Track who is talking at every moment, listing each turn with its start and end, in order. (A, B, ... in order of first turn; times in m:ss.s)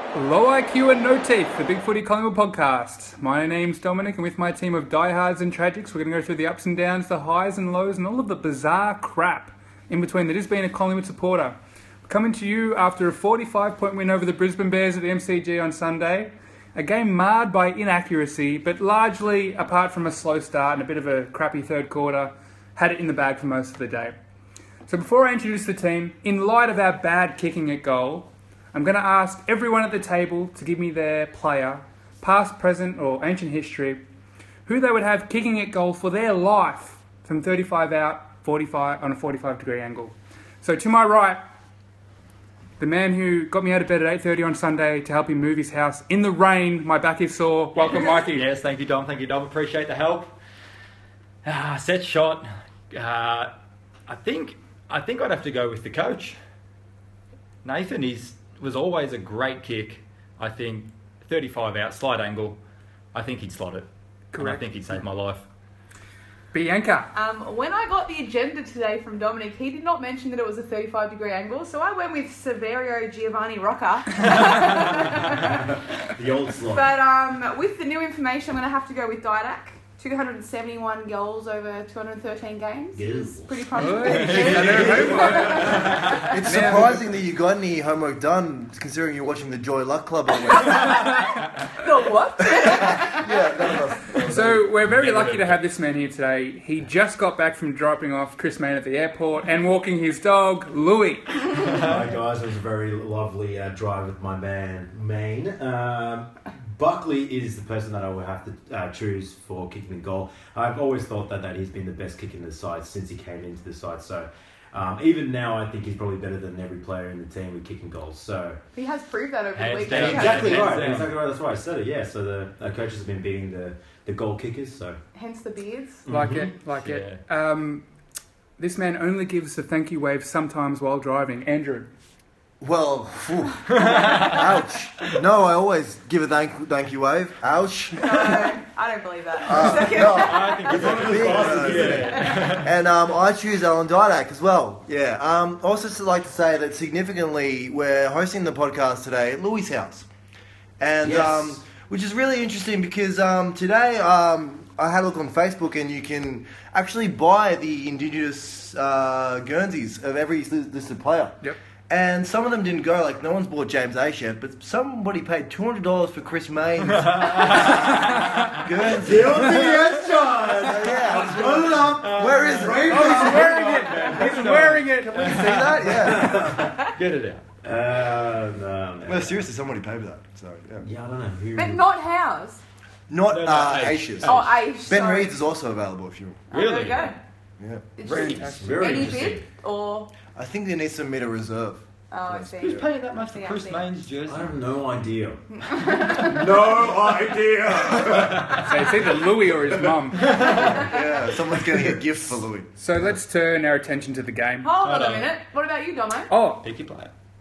0:00.1-0:24.2 A
0:24.9-0:34.0 A
0:34.6-0:41.4 A
0:42.8-0:48.5 A
0:47.8-0:50.3 B
0:51.4-0:53.5 B
0:54.1-0:56.4 B
0:57.6-1:02.6 B
1:03.1-1:05.4 B
1:04.3-1:05.0 A
1:06.5-1:07.1 A
1:07.1-1:15.5 C
1:14.8-1:16.9 D
1:16.7-1:26.3 C
1:22.9-1:26.0 D
1:23.7-1:27.0 A
1:24.0-1:26.4 B
1:26.2-1:30.9 E
1:30.5-1:33.3 C
1:32.6-1:34.7 E
1:34.3-1:41.8 A
1:34.8-1:35.6 B
1:41.6-1:58.6 D
1:58.7-2:00.9 C
1:59.5-2:01.2 B
1:59.9-2:05.0 D
2:05.1-2:06.0 C
2:06.0-2:06.5 D
2:06.1-2:07.9 A
2:06.7-2:07.2 B
2:08.6-2:11.9 A
2:12.6-2:18.4 E
2:13.7-2:14.4 B
2:18.0-2:20.8 C
2:19.5-2:30.1 E
2:19.5-2:22.7 B
2:20.6-2:22.5 D
2:30.8-2:49.6 E
2:31.0-2:31.6 D
2:46.9-2:48.5 B
2:48.9-2:54.4 D
2:49.5-2:50.3 B
2:50.6-2:53.5 E
2:51.1-2:57.4 B
2:52.9-2:55.7 A
2:55.2-2:56.7 E
2:56.0-2:56.7 D
2:57.6-2:59.4 D
2:59.0-3:00.9 E
3:00.8-3:01.8 D
3:01.5-3:02.6 C
3:03.1-3:06.4 E
3:03.3-3:04.7 B
3:04.2-3:05.4 C
3:06.5-3:07.2 C
3:06.5-3:07.2 B
3:07.6-3:07.9 E
3:08.0-3:10.1 C
3:08.0-3:09.3 B
3:08.1-3:09.1 A
3:08.4-3:09.5 D
3:10.3-3:12.8 E
3:12.1-3:13.9 C
3:12.6-3:14.5 B
3:14.3-3:20.9 D
3:15.5-3:16.6 C
3:18.6-3:20.4 A
3:20.4-3:21.1 C
3:20.6-3:22.7 E
3:22.8-3:24.7 A
3:24.6-3:26.3 C
3:24.8-3:25.3 B
3:26.3-3:26.6 A
3:26.6-3:27.1 B